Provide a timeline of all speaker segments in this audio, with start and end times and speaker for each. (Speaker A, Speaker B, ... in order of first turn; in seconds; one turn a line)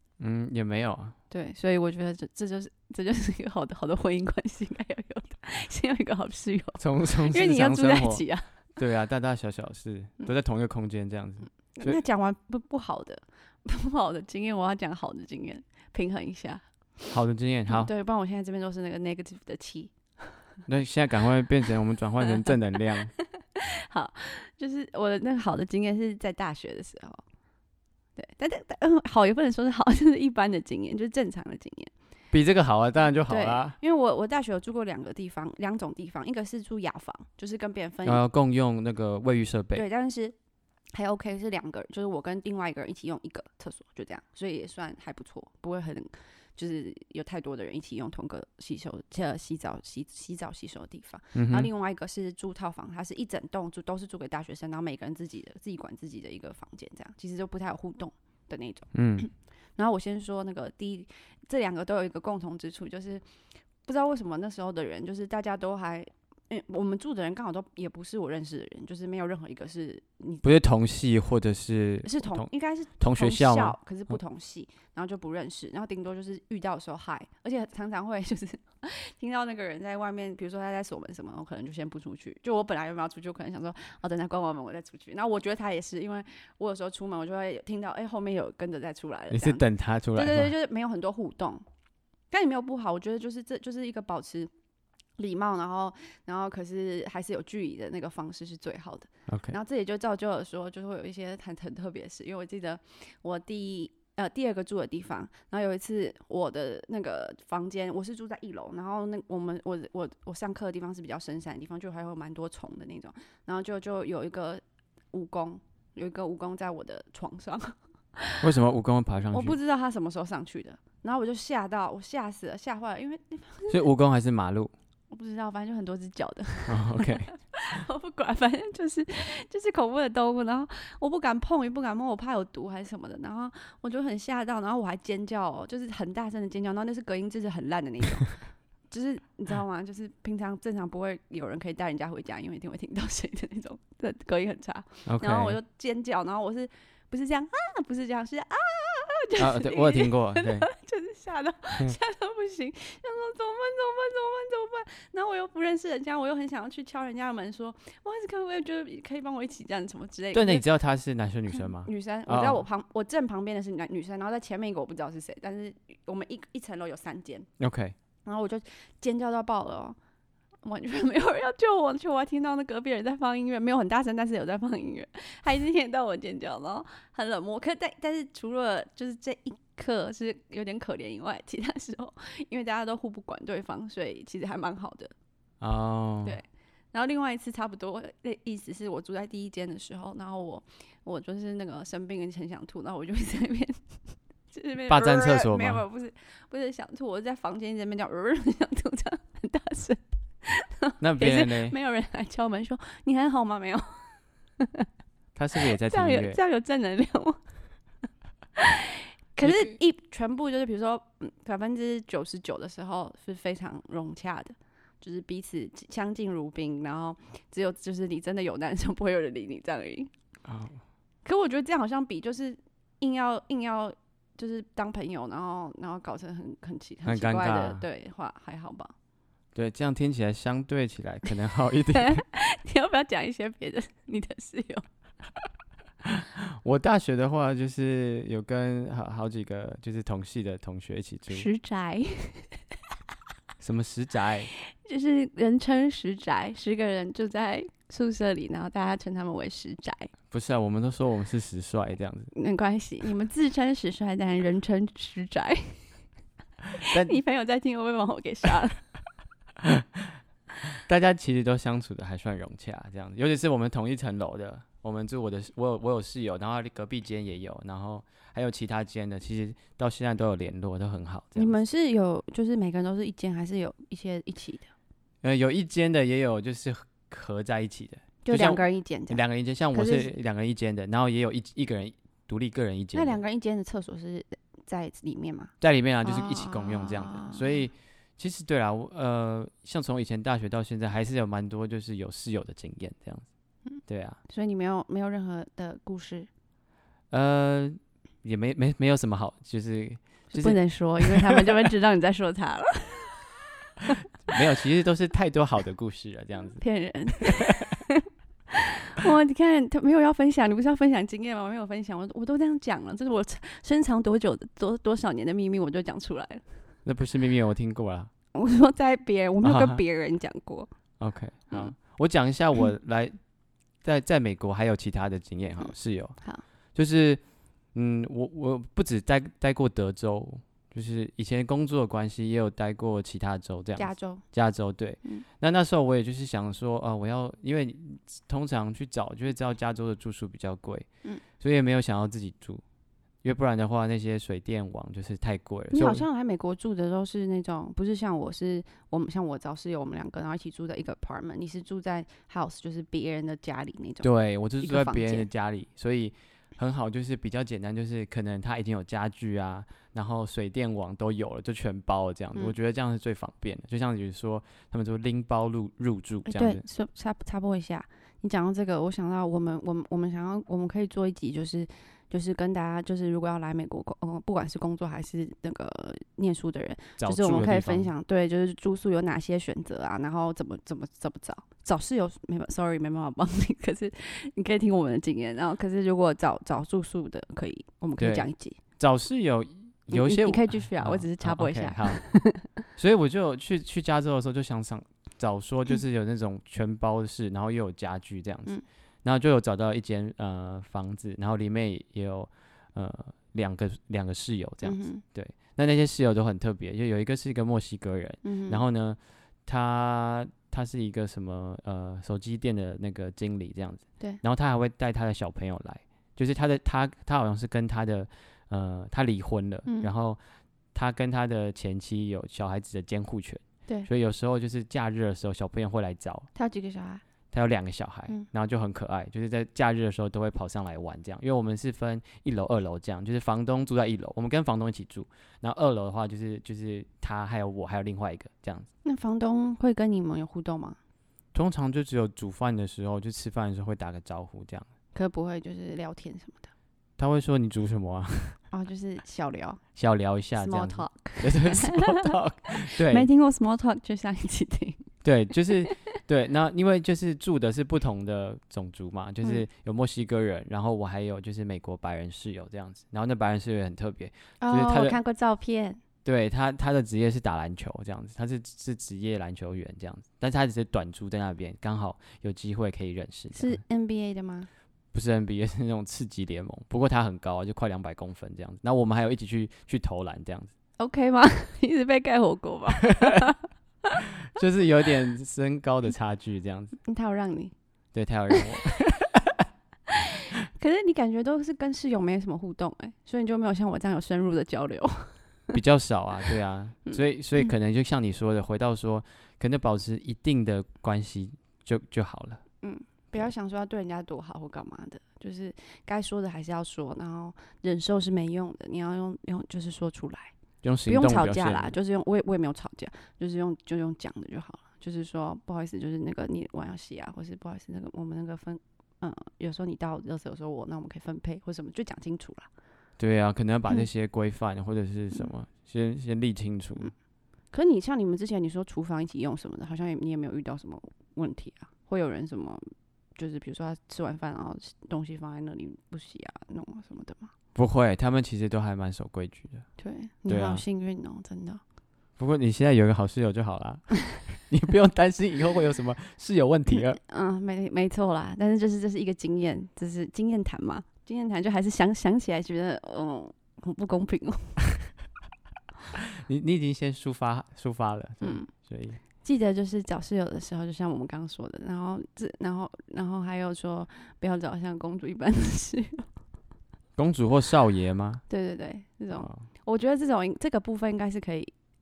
Speaker A: 0.2-1.1
Speaker B: 1.3-8.5
Speaker A: 6.8-12.0
Speaker B: 11.8-16.6
Speaker A: 17.1-17.9
Speaker B: 17.7-20.4
Speaker A: 20.7-23.1
Speaker B: 23.2-27.2
Speaker B: 28.2-31.9
Speaker A: 32.3-33.8
Speaker B: 33.3-38.2
Speaker A: 38.0-39.8
Speaker B: 39.7-40.3
Speaker B: 40.9-63.2
Speaker A: 51.3-51.7
Speaker A: 58.9-59.2
Speaker B: 63.8-70.4
Speaker A: 70.4-73.8
Speaker B: 72.0-91.6
Speaker A: 89.3-90.5
Speaker B: 92.3-94.5
Speaker B: 95.2-118.4
Speaker A: 99.3-99.5
Speaker A: 118.4-119.5
Speaker B: 119.3-123.8
Speaker A: 123.7-124.7
Speaker B: 125.1-160.6
Speaker A: 126.7-127.3
Speaker A: 145.1-145.6
Speaker A: 149.4-150.7
Speaker A: 160.3-162.6
Speaker B: 161.8-167.5
Speaker A: 167.6-167.9
Speaker B: 168.2-170.0
Speaker B: 170.6-185.1
Speaker A: 185.6-186.4
Speaker B: 186.2-194.0
Speaker B: 194.5-204.9
Speaker A: 194.9-195.8
Speaker A: 201.0-201.8
Speaker A: 205.3-206.4
Speaker B: 205.8-207.4
Speaker B: 208.6-220.1
Speaker A: 209.4-209.7
Speaker A: 220.4-220.8
Speaker B: 221.2-228.9
Speaker A: 227.1-227.8
Speaker A: 229.5-232.2
Speaker B: 231.9-234.8
Speaker A: 236.0-241.5
Speaker B: 241.3-242.6
Speaker A: 243.6-244.5
Speaker B: 244.7-250.1
Speaker A: 250.3-252.3
Speaker B: 252.3-256.0
Speaker B: 256.8-258.8
Speaker A: 256.9-257.1
Speaker A: 259.6-260.1
Speaker A: 260.8-271.6
Speaker B: 271.4-274.7
Speaker A: 275.2-283.2
Speaker B: 278.2-279.2
Speaker B: 279.7-280.1
Speaker B: 282.9-287.4
Speaker A: 285.6-293.3
Speaker B: 293.7-296.3
Speaker A: 293.9-294.2
Speaker A: 297.1-301.5
Speaker B: 300.3-303.2
Speaker A: 304.2-306.6
Speaker B: 306.6-316.4
Speaker A: 307.2-307.5
Speaker A: 316.8-318.1
Speaker B: 318.3-320.7
Speaker A: 319.4-319.8
Speaker A: 321.0-323.2
Speaker A: 323.8-326.2
Speaker B: 325.6-326.4
Speaker A: 326.7-327.2
Speaker A: 327.7-342.6
Speaker B: 333.8-334.2
Speaker A: 343.2-346.0
Speaker B: 345.7-355.3
Speaker A: 354.0-366.6
Speaker B: 366.2-388.6
Speaker A: 377.0-377.9
Speaker A: 388.0-388.3
Speaker A: 388.8-392.1
Speaker B: 389.9-392.5
Speaker A: 392.7-420.2
Speaker B: 404.6-405.0
Speaker B: 408.2-408.6
Speaker B: 419.6-419.9
Speaker A: 420.7-426.3
Speaker B: 426.3-427.0
Speaker A: 427.3-438.7
Speaker B: 438.8-440.8
Speaker A: 441.3-444.6
Speaker B: 444.9-446.5
Speaker A: 447.0-448.4
Speaker B: 448.5-449.6
Speaker A: 449.8-453.1
Speaker B: 450.3-452.1
Speaker B: 452.6-454.9
Speaker A: 455.0-465.0
Speaker B: 464.4-465.8
Speaker A: 466.0-473.6
Speaker B: 473.3-474.5
Speaker A: 474.9-480.5
Speaker B: 480.8-483.4
Speaker A: 484.3-486.8
Speaker B: 486.9-487.5
Speaker A: 487.9-489.4
Speaker B: 490.5-495.2
Speaker A: 495.5-502.4
Speaker B: 502.6-510.3
Speaker A: 510.6-511.7
Speaker B: 510.9-522.5
Speaker A: 523.0-526.9
Speaker B: 527.5-537.3
Speaker A: 537.5-539.7
Speaker B: 539.8-541.6
Speaker A: 540.3-540.6
Speaker A: 542.2-547.0
Speaker B: 547.1-554.6
Speaker A: 556.2-559.0
Speaker B: 558.2-558.5
Speaker B: 559.1-566.1
Speaker A: 567.0-568.2
Speaker B: 568.3-571.5